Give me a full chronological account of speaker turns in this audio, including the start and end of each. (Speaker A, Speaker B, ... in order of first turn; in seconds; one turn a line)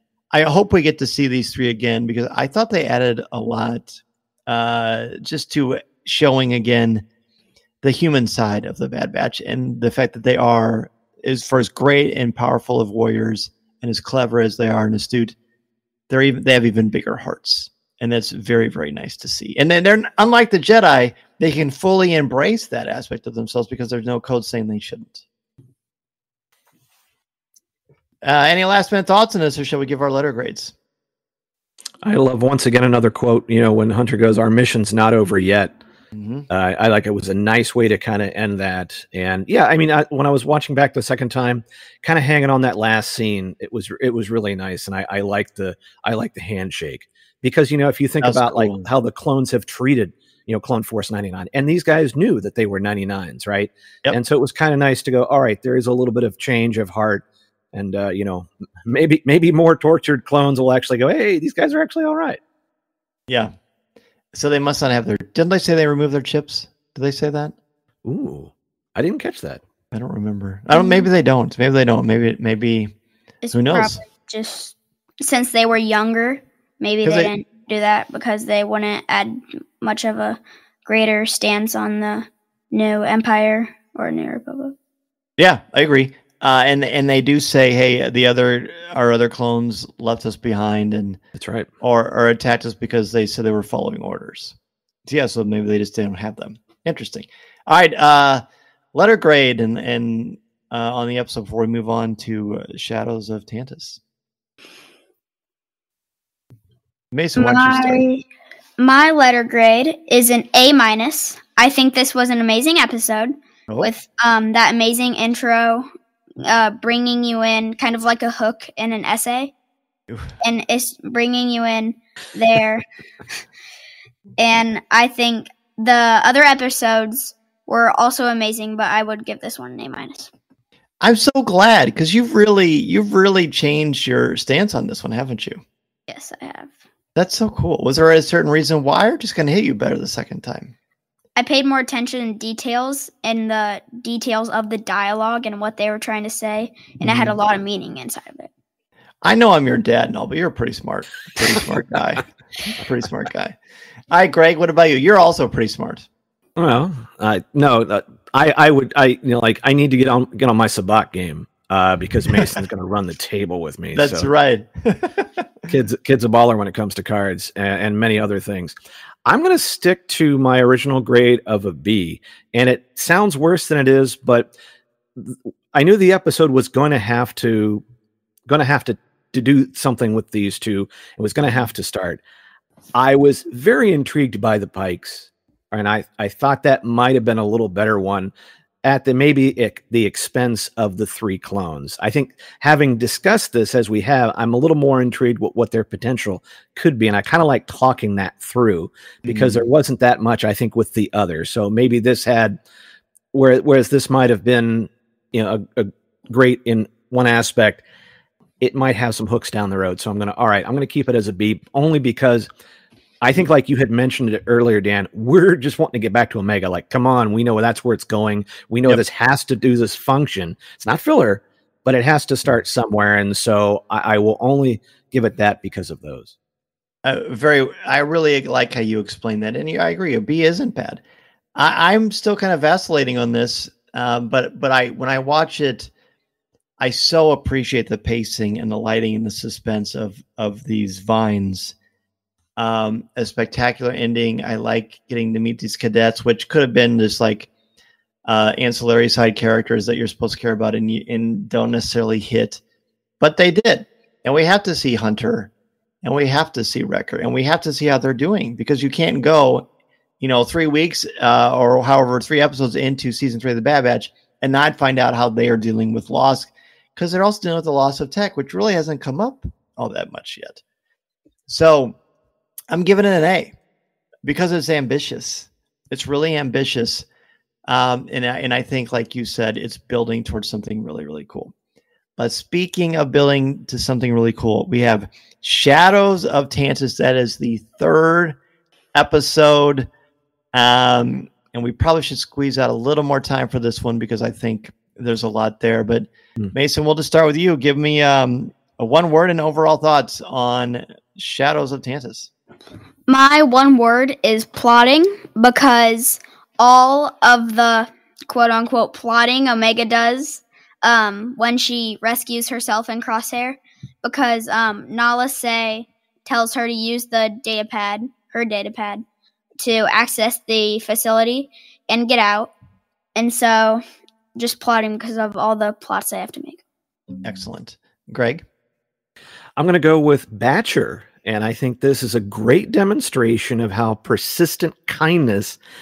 Speaker A: 0.3-7.0
Speaker A: 7.8-15.3
Speaker A: 16.1-25.2
Speaker A: 28.2-30.7
Speaker B: 32.0-35.8
Speaker A: 36.1-36.5
Speaker B: 36.5-62.4
Speaker A: 48.2-48.8
Speaker A: 64.3-67.5
Speaker B: 68.0-69.6
Speaker A: 69.9-72.9
Speaker C: 70.7-71.1
Speaker C: 73.4-84.7
Speaker A: 73.5-74.0
Speaker A: 77.0-77.3
Speaker A: 85.4-91.2
Speaker B: 91.4-91.7
Speaker A: 91.8-104.0
Speaker A: 107.1-108.1
Speaker C: 107.4-108.2
Speaker C: 108.8-115.9
Speaker C: 116.4-119.5
Speaker C: 120.4-122.8
Speaker C: 124.4-130.3
Speaker A: 131.0-135.6
Speaker C: 136.1-136.7
Speaker A: 137.2-140.7
Speaker C: 141.3-148.5
Speaker A: 147.0-147.4
Speaker A: 149.2-153.6
Speaker A: 154.1-156.1
Speaker B: 156.6-164.3
Speaker A: 163.9-165.7
Speaker B: 165.7-174.5
Speaker B: 175.2-177.8
Speaker B: 178.5-182.2
Speaker B: 182.9-188.3
Speaker B: 188.8-202.6
Speaker A: 199.2-199.6
Speaker B: 203.3-207.8
Speaker B: 208.6-212.5
Speaker B: 213.2-226.3
Speaker A: 227.0-231.0
Speaker A: 231.5-235.9
Speaker A: 236.8-241.8
Speaker A: 242.6-247.5
Speaker A: 248.2-252.6
Speaker A: 253.2-255.5
Speaker A: 256.0-259.7
Speaker A: 260.2-270.6
Speaker A: 271.5-272.0
Speaker A: 272.7-273.5
Speaker A: 274.2-277.1
Speaker A: 277.6-281.5
Speaker A: 282.2-288.4
Speaker A: 288.9-289.9
Speaker A: 290.5-302.3
Speaker C: 303.1-319.0
Speaker C: 319.6-322.5
Speaker C: 323.1-323.8
Speaker C: 324.4-326.6
Speaker A: 327.2-328.4
Speaker B: 329.6-335.6